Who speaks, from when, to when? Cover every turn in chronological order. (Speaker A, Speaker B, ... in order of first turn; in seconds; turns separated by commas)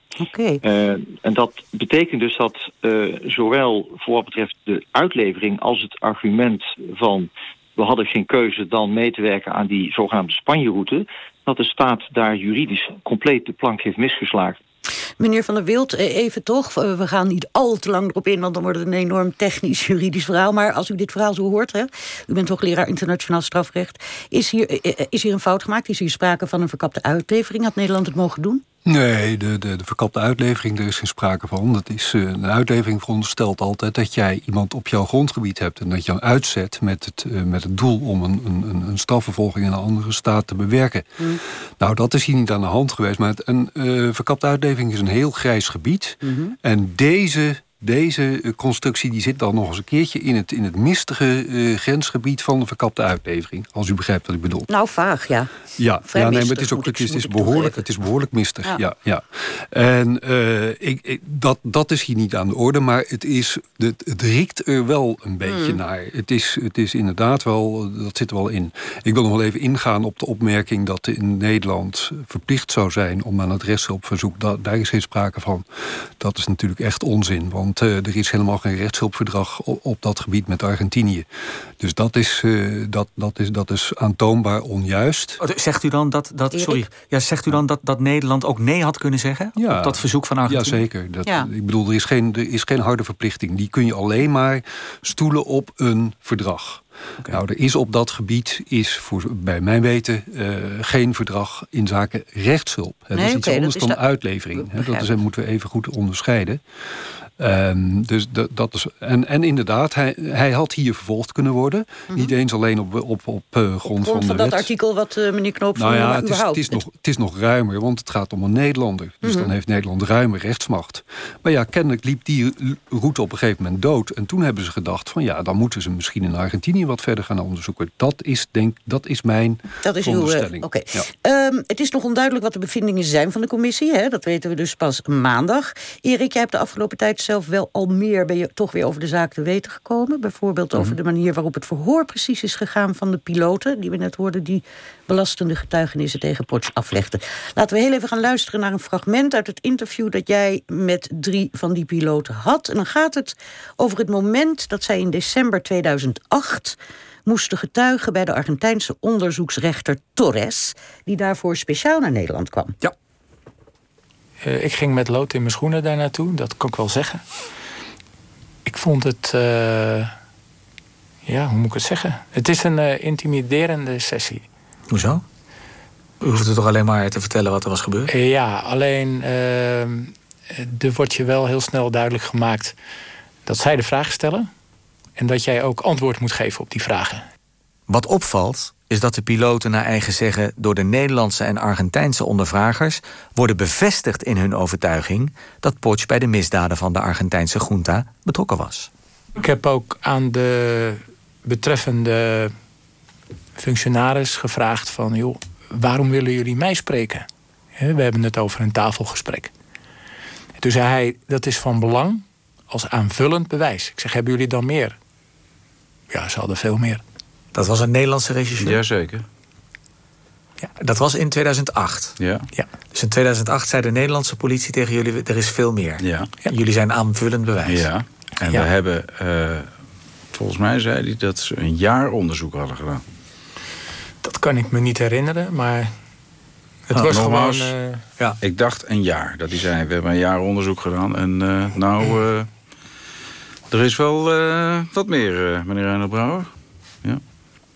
Speaker A: 0.2-0.6, Speaker B: 0.6-14.6, Speaker A: 15.2-28.6, Speaker C: 28.8-41.3, Speaker C: 41.8-54.7, Speaker A: 46.2-46.5, Speaker A: 54.7-55.5, Speaker C: 55.8-75.6, Speaker A: 56.0-57.8, Speaker A: 65.5-65.8, Speaker C: 76.2-81.2, Speaker C: 81.8-85.4, Speaker D: 85.4-90.8, Speaker A: 86.5-86.9, Speaker C: 89.5-106.6, Speaker A: 103.1-104.0, Speaker A: 104.5-105.1, Speaker C: 107.4-114.7, Speaker A: 113.9-116.8, Speaker C: 115.8-131.1, Speaker A: 119.2-119.5, Speaker A: 129.8-162.8, Speaker E: 164.4-167.3, Speaker E: 168.7-170.1, Speaker E: 171.2-174.5, Speaker D: 174.9-175.2, Speaker D: 176.2-178.1, Speaker E: 178.1-182.8, Speaker E: 183.4-184.5, Speaker E: 185.2-187.2, Speaker D: 187.9-198.9, Speaker E: 199.4-202.5, Speaker E: 203.6-209.5, Speaker E: 210.6-215.0, Speaker E: 216.1-217.0, Speaker D: 217.5-218.8, Speaker F: 218.6-219.2, Speaker D: 220.8-222.2, Speaker F: 222.2-222.4, Speaker D: 222.9-227.9, Speaker F: 226.0-226.3, Speaker F: 227.6-229.7, Speaker F: 230.3-233.0, Speaker E: 234.2-235.9, Speaker E: 236.9-238.0, Speaker F: 237.1-237.7, Speaker F: 238.4-242.5, Speaker F: 243.7-246.5